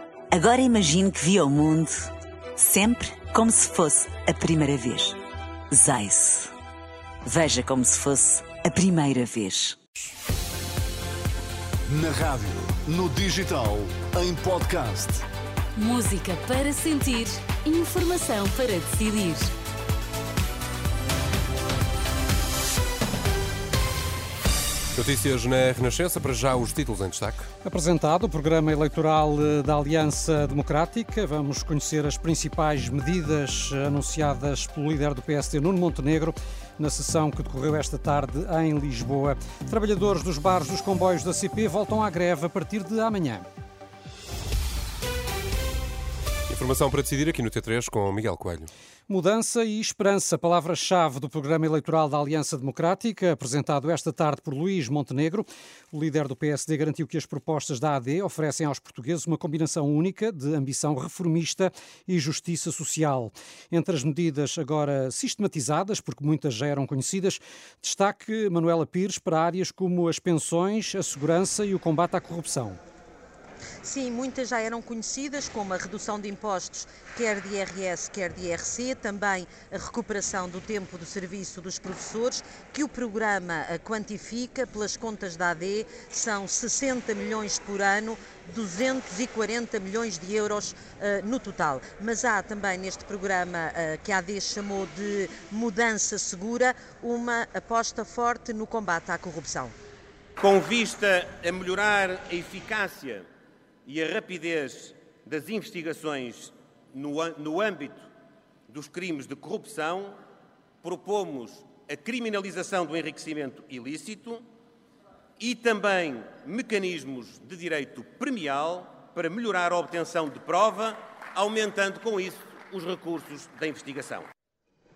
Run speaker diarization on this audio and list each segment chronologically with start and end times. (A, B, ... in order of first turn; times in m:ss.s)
0:00.3-0:05.2 A
0:05.7-0:06.5 A
0:07.2-0:09.8 A
0:11.9-0:15.2 B
0:15.8-0:19.5 C
0:24.9-0:27.5 D
0:27.6-0:43.4 E
0:46.5-0:48.7 D
0:49.1-1:12.8 E
1:13.8-1:39.8 F
1:40.4-1:43.2 G
1:43.8-1:48.1 G
1:48.7-1:50.2 G
1:50.8-1:54.4 G
1:55.4-2:04.3 G